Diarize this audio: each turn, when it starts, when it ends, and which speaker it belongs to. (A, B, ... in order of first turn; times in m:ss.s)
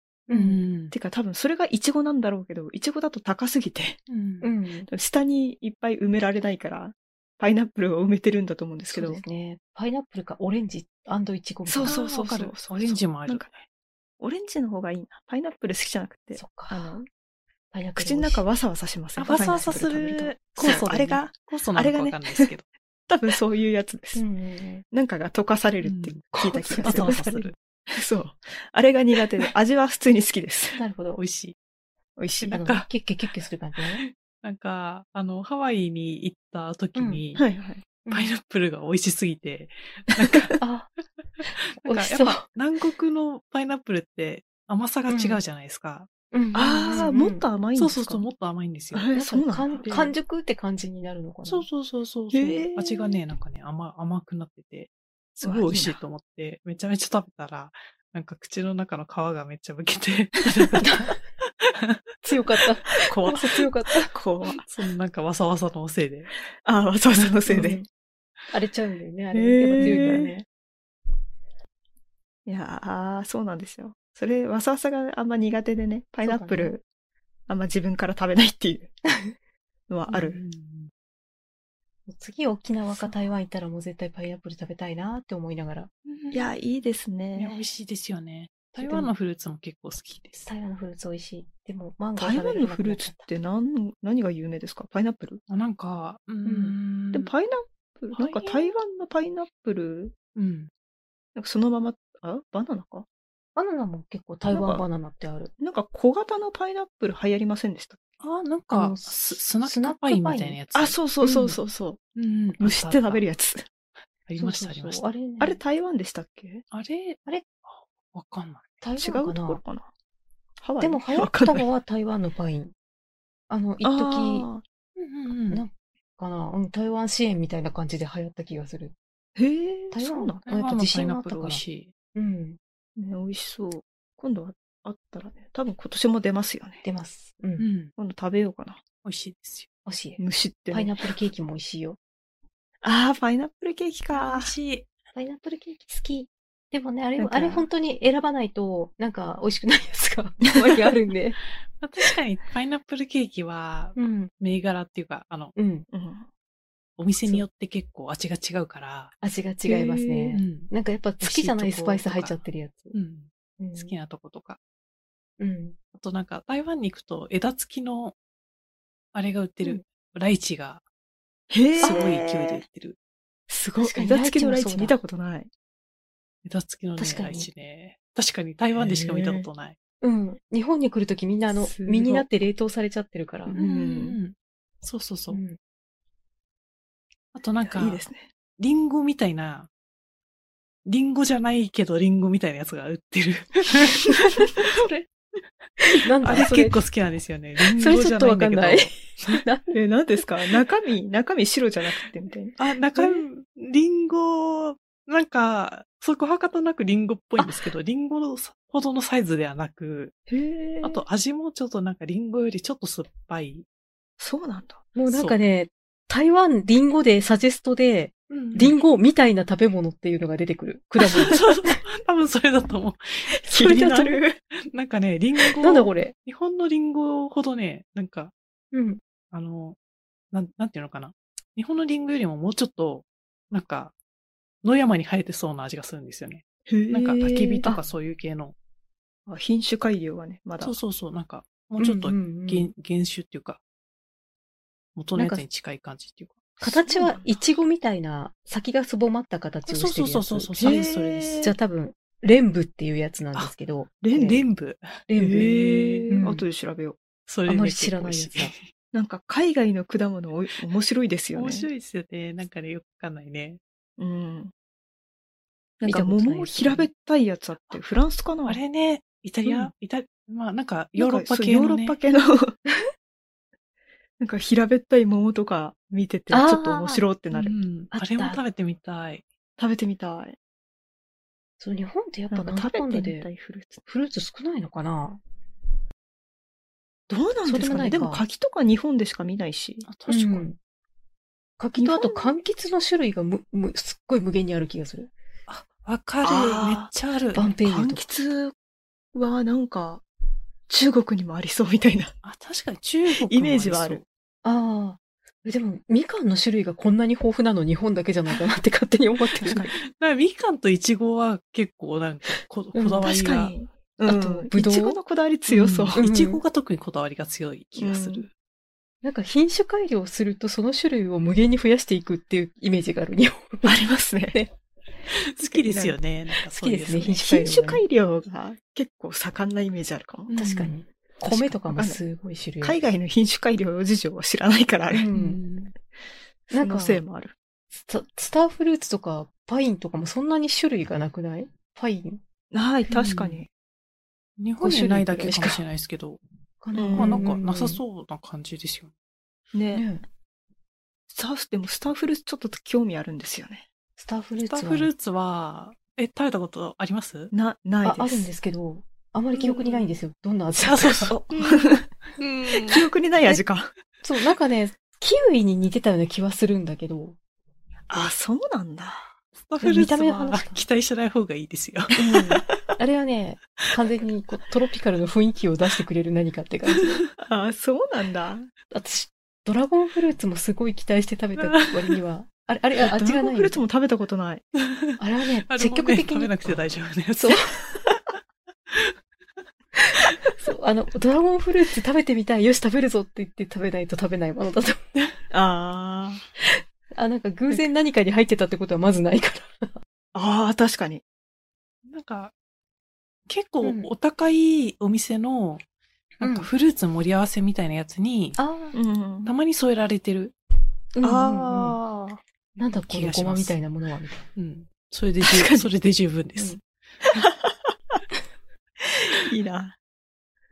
0:00.3-0:00.6 A
0:00.3-0:00.9 B
0:00.9-0:04.0 C
0:04.1-0:04.4 B
0:04.4-0:04.9 A
0:04.9-0:09.2 C
0:08.9-0:12.0 A
0:11.7-0:13.6 C
0:11.8-0:13.5 B
0:14.2-0:17.0 C
0:16.3-0:17.0 A
0:17.7-0:18.4 A
0:18.0-0:22.5 C
0:19.2-0:22.6 B
0:19.3-0:19.8 A
0:23.1-0:24.2 C
0:24.1-0:24.8 A
0:24.9-0:30.8 C
0:25.8-0:27.5 B
0:26.5-0:27.5 A
0:30.7-0:31.2 A
0:31.2-0:31.5 B
0:32.2-0:32.6 C
0:32.4-0:32.9 B
0:32.4-0:34.0 A
0:33.8-0:37.4 B
0:36.9-0:37.2 A
0:37.4-0:37.8 C
0:38.0-0:38.3 A
0:38.1-0:40.6 B
0:40.2-0:40.6 C
0:40.6-0:40.9 A
0:41.5-0:42.4 A
0:41.6-0:46.1 B
0:45.1-0:45.4 A
0:46.3-0:47.4 A
0:46.5-0:48.2 C
0:47.8-0:49.1 B
0:48.9-0:50.1 C
0:49.1-0:51.7 A
0:49.8-0:50.1 B
0:51.4-1:02.0 B
0:52.3-0:53.2 C
0:55.4-0:56.0 C
1:00.8-1:01.2 A
1:02.2-1:04.1 A
1:03.0-1:04.6 C
1:04.6-1:06.3 B
1:06.6-1:07.8 C
1:07.5-1:07.8 A
1:08.5-1:10.4 A
1:09.3-1:10.3 C
1:09.8-1:10.1 B
1:12.4-1:16.8 C
1:16.2-1:16.7 A
1:17.5-1:18.9 C
1:19.9-1:20.4 C
1:20.1-1:20.9 B
1:22.1-1:25.9 A
1:26.0-1:26.4 B
1:26.3-1:27.6 C
1:27.4-1:30.5 B
1:28.7-1:29.1 A
1:30.5-1:33.2 A
1:32.2-1:35.4 C
1:35.5-1:37.3 B
1:36.4-1:36.8 A
1:37.1-1:40.1 C
1:38.1-1:38.7 B
1:40.3-1:40.7 B
1:41.3-1:43.0 C
1:43.6-1:45.5 A
1:44.5-1:44.8 C
1:45.6-1:48.0 C
1:48.2-1:51.0 B
1:48.7-1:50.6 A
1:50.7-1:52.0 C
1:51.2-1:51.6 A
1:52.2-1:53.2 B
1:52.6-1:53.6 C
1:54.3-1:55.1 B
1:54.4-1:55.6 A
1:55.4-1:56.6 C
1:56.7-1:58.6 B
1:58.8-1:59.6 A
1:59.0-1:59.9 C
2:00.6-2:01.6 C
2:00.8-2:02.7 A
2:03.5-2:04.5 A
2:03.8-2:04.6 C
2:05.0-2:05.6 B
2:05.5-2:08.9 A
2:09.4-2:10.4 C
2:09.9-2:11.6 A
2:10.4-2:11.9 B
2:12.1-2:12.6 A
2:13.0-2:16.8 C
2:16.8-2:17.7 A
2:17.6-2:17.9 B
2:18.0-2:18.8 C
2:19.0-2:19.7 B
2:19.8-2:22.0 A
2:20.2-2:21.1 C
2:22.8-2:24.5 C
2:24.1-2:24.9 B
2:25.1-2:31.4 A
2:27.2-2:27.6 C
2:30.4-2:30.9 C
2:31.7-2:35.5 B
2:34.0-2:34.3 A
2:35.6-2:35.9 A
2:35.9-2:36.3 C
2:37.0-2:39.1 B
2:39.2-2:43.0 A
2:39.7-2:40.4 C
2:40.3-2:40.7 B
2:41.2-2:42.4 B
2:42.9-2:44.6 B
2:43.6-2:43.9 A
2:45.4-2:45.8 A
2:45.9-2:48.2 B
2:49.1-2:50.8 B
2:51.5-2:52.6 C
2:51.7-2:53.0 B
2:51.8-2:52.2 A
2:53.5-2:55.5 C
2:53.8-2:55.0 A
2:56.4-2:59.8 B
2:57.0-2:57.5 A
2:58.8-2:59.5 C
3:00.0-3:03.6 A
3:01.5-3:02.2 C
3:03.5-3:04.2 C
3:03.5-3:05.4 B
3:05.3-3:05.6 A
3:07.3-3:08.0 B
3:07.6-3:08.3 C
3:08.6-3:09.7 B
3:10.8-3:15.1 B
3:15.8-3:16.8 A
3:16.2-3:19.4 B
3:17.6-3:20.4 A
3:19.7-3:22.6 C
3:22.6-3:30.2 B
3:23.0-3:23.2 A
3:27.4-3:27.6 A
3:30.3-3:31.0 C
3:30.8-3:33.6 B
3:34.2-3:34.9 C
3:34.9-3:41.8 A
3:35.1-3:35.4 B
3:38.3-3:38.8 B
3:41.2-3:48.3 B
3:43.3-3:44.4 C
3:45.6-3:46.1 A
3:48.7-3:49.0 A
3:49.3-3:49.8 B
3:50.3-3:53.9 B
3:54.6-3:58.5 B
3:56.7-3:57.8 C
3:59.3-4:00.8 C
4:00.6-4:03.6 B
4:01.8-4:02.7 A
4:04.9-4:06.6 B
4:05.1-4:05.4 A
4:06.6-4:10.8 A
4:06.7-4:07.4 C
4:09.7-4:11.4 B
4:10.6-4:11.5 C
4:11.4-4:14.4 A
4:14.0-4:14.4 C
4:14.1-4:16.2 B
4:15.1-4:15.6 A
4:15.2-4:17.0 C
4:16.1-4:16.4 A
4:17.2-4:18.6 B
4:17.5-4:18.5 A
4:18.9-4:21.7 C
4:21.3-4:23.6 B
4:24.0-4:24.5 C
4:25.8-4:28.6 C
4:25.8-4:26.9 A
4:28.4-4:32.0 B
4:31.0-4:32.6 C
4:34.2-4:37.6 C
4:36.3-4:37.0 A
4:37.3-4:39.2 B
4:37.9-4:38.4 A
4:39.6-4:40.4 C
4:41.6-4:43.3 A
4:42.3-4:43.8 C
4:43.8-4:45.2 A
4:47.1-4:49.9 C
4:47.4-4:48.2 A
4:49.9-4:50.5 B
4:50.1-4:50.6 A
4:51.6-4:55.1 A
4:51.8-4:52.4 C
4:55.5-4:57.6 B
4:56.2-4:56.9 C
4:57.3-4:58.0 A
4:57.6-4:58.5 C
4:59.1-5:00.0 C
5:00.7-5:02.1 C
5:02.2-5:04.0 B
5:03.1-5:04.0 C
5:04.4-5:09.6 A
5:09.4-5:09.8 C
5:09.8-5:13.5 B
5:12.3-5:13.1 A
5:13.0-5:16.0 C
5:14.0-5:15.0 A
5:15.5-5:18.3 B
5:15.9-5:16.4 A
5:17.8-5:18.2 C
5:19.0-5:24.5 A
5:23.6-5:24.4 C
5:25.1-5:27.2 B
5:25.4-5:26.0 C
5:26.4-5:27.8 A
5:27.1-5:30.3 C
5:30.3-5:30.7 B
5:30.3-5:32.8 A
5:31.3-5:31.5 B
5:31.6-5:32.0 C
5:32.6-5:35.1 C
5:34.9-5:35.4 A
5:35.1-5:35.7 B
5:36.5-5:37.3 C
5:36.5-5:37.0 A
5:37.7-5:42.2 A
5:42.5-5:43.5 C
5:42.9-5:43.4 B
5:44.4-5:46.2 B
5:44.6-5:45.6 A
5:46.6-5:47.8 A
5:46.7-5:47.4 C
5:46.9-5:48.9 B
5:49.5-5:49.8 C
5:49.7-5:50.0 A
5:51.1-5:53.6 C
5:54.0-5:54.9 A
5:54.5-5:57.3 B
5:57.3-5:58.3 C
5:57.8-6:01.2 A
5:59.3-6:00.0 B
6:00.6-6:01.6 B
6:01.1-6:01.9 C
6:02.2-6:02.8 B
6:02.5-6:03.7 C
6:04.0-6:07.2 A
6:07.9-6:09.1 C
6:09.3-6:12.0 B
6:09.6-6:10.6 A
6:11.9-6:17.0 A
6:17.2-6:18.5 C
6:18.7-6:23.6 A
6:21.4-6:22.0 B
6:22.8-6:24.4 C
6:24.6-6:28.0 B
6:25.0-6:26.4 A
6:27.2-6:27.6 A
6:28.7-6:29.0 B
6:29.9-6:34.9 A
6:35.3-6:36.2 C
6:36.4-6:39.8 A
6:40.1-6:41.0 C
6:41.8-6:42.3 B
6:43.3-6:45.6 B
6:43.6-6:43.9 A
6:46.2-6:48.4 B
6:46.2-6:46.5 A
6:48.4-6:48.8 A
6:48.7-6:49.3 C
6:49.2-6:50.3 B
6:50.9-6:51.8 A
6:51.0-6:52.2 C
6:52.6-6:54.2 A
6:52.9-6:53.6 B
6:54.4-6:56.6 B
6:55.2-6:55.7 C
6:57.0-6:57.7 C
6:58.8-6:59.8 C